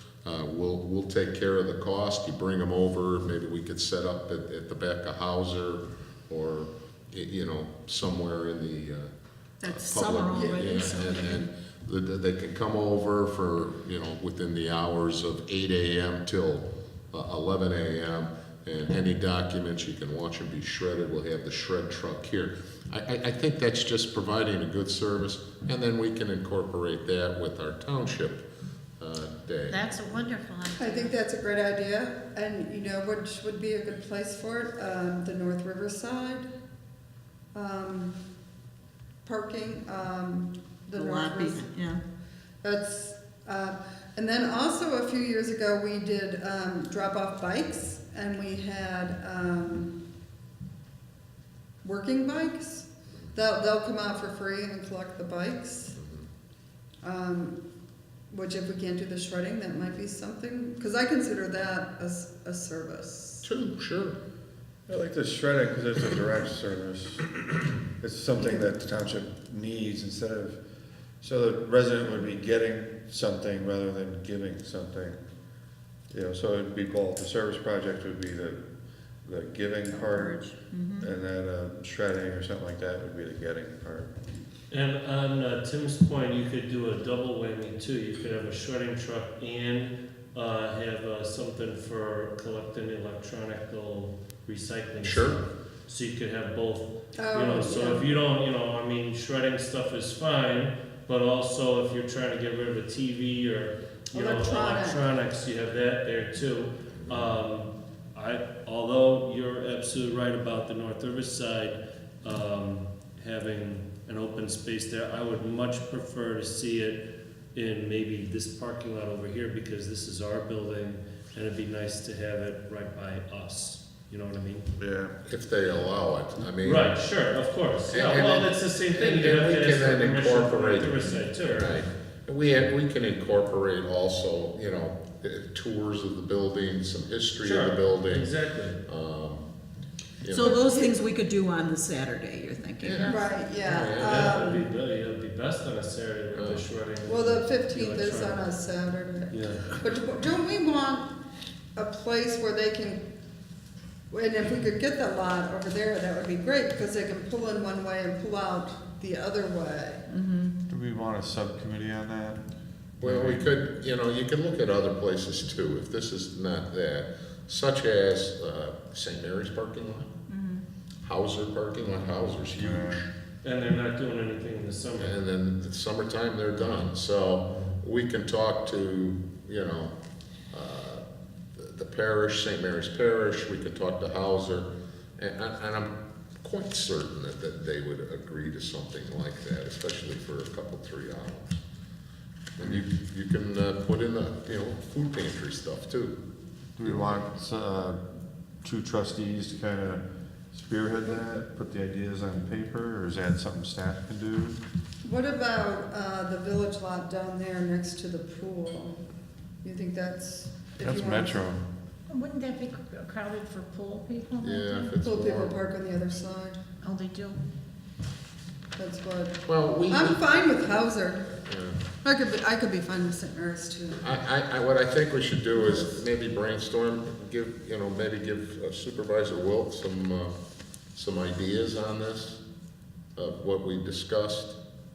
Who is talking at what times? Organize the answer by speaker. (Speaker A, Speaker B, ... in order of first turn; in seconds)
Speaker A: 0.2-9.1, 9.6-28.4, 29.0-30.2, 56.0-56.3, 63.4-64.2, 95.0-95.4, 106.9-107.3, 125.2-126.9, 127.9-138.3, 138.8-139.5, 140.2-140.5, 142.8-144.4, 146.3-146.6, 163.0-170.1, 171.0-173.1, 175.0-179.9, 180.5-181.0, 181.6-191.6, 192.6-196.2, 196.8-197.2, 214.4-215.6, 219.4-220.6, 221.4-221.8, 224.0-230.3, 230.9-232.4, 233.2-234.6
Speaker B: 9.6-11.5, 40.9-42.0, 80.0-81.1, 140.3-143.1, 160.1-160.6, 170.3-170.6
Speaker C: 10.3-10.9, 30.8-36.5, 37.5-38.2, 39.2-41.7, 42.6-50.0, 51.8-56.0, 57.0-57.6, 58.3-63.4, 68.4-68.7, 97.2-98.1, 104.1-105.0, 140.3-141.1, 143.0-144.6, 147.1-151.2, 151.8-153.0, 154.1-160.0, 205.0-209.0, 209.6-211.4, 215.0-216.6, 218.8-221.3, 222.0-224.0, 225.5-226.0
Speaker D: 29.7-31.1, 212.1-214.9, 216.8-217.4
Speaker E: 64.9-70.6, 71.2-75.2, 76.1-78.6, 79.2-84.1, 124.8-125.1, 160.7-162.4, 163.0-163.5, 172.6-173.0, 196.8-198.0, 198.6-204.6, 210.8-211.6
Speaker F: 84.7-124.6, 126.6-131.8, 137.4-138.8, 144.0-148.4, 149.3-149.8, 173.4-175.2